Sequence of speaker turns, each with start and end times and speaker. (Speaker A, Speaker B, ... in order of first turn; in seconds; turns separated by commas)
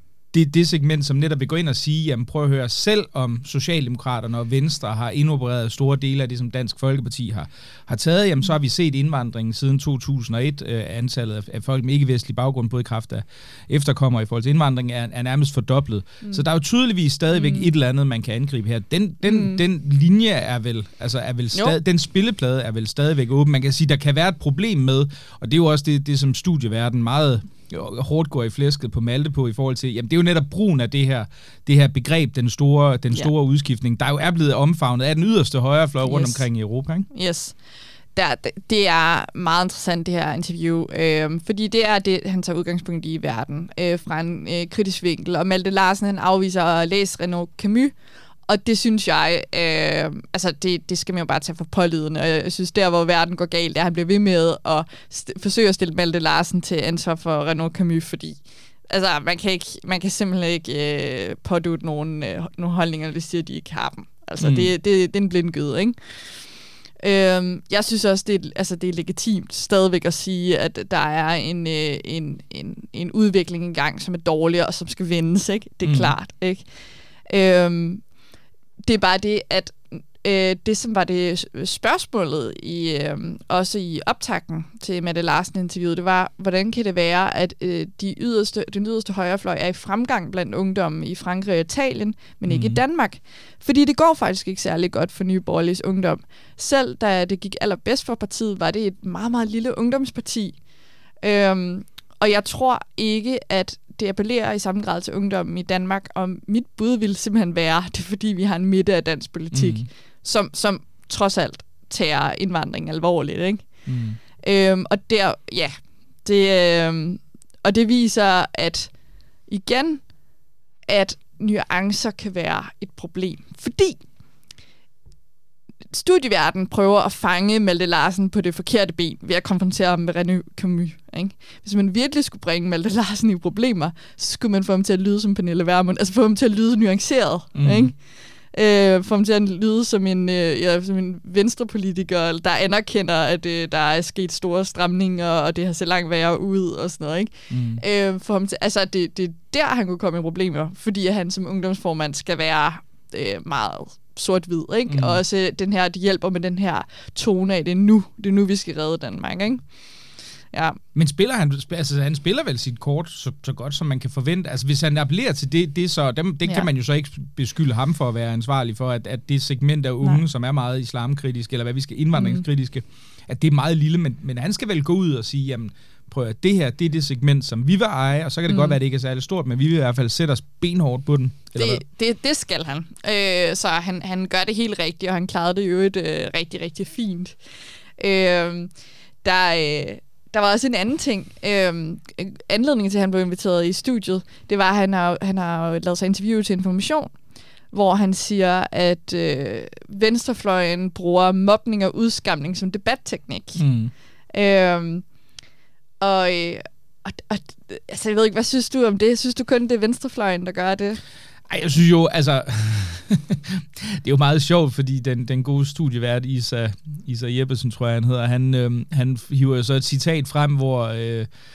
Speaker A: 0.3-37.1, Speaker B: 17.4-17.7, Speaker B: 19.2-19.6, Speaker B: 36.0-36.5, Speaker B: 37.1-37.6, Speaker B: 38.1-48.0, Speaker B: 48.5-66.1, Speaker A: 64.4-64.7, Speaker B: 67.0-76.7, Speaker A: 75.8-76.1, Speaker B: 77.3-78.0, Speaker B: 78.8-100.6, Speaker A: 92.5-92.8, Speaker B: 101.2-113.7, Speaker A: 109.5-109.9, Speaker A: 113.9-114.2, Speaker B: 114.4-118.9, Speaker B: 119.5-120.1, Speaker B: 120.9-124.0, Speaker B: 125.9-159.7, Speaker A: 137.5-137.9, Speaker A: 147.5-147.8, Speaker A: 154.9-155.2, Speaker B: 160.5-160.8, Speaker A: 160.9-181.8, Speaker B: 172.2-172.4, Speaker B: 178.5-178.8, Speaker B: 181.6-187.4, Speaker B: 188.0-188.7, Speaker B: 189.2-197.1, Speaker B: 197.7-203.6, Speaker A: 203.6-203.9, Speaker B: 204.3-205.1, Speaker B: 206.0-211.0, Speaker A: 211.5-221.3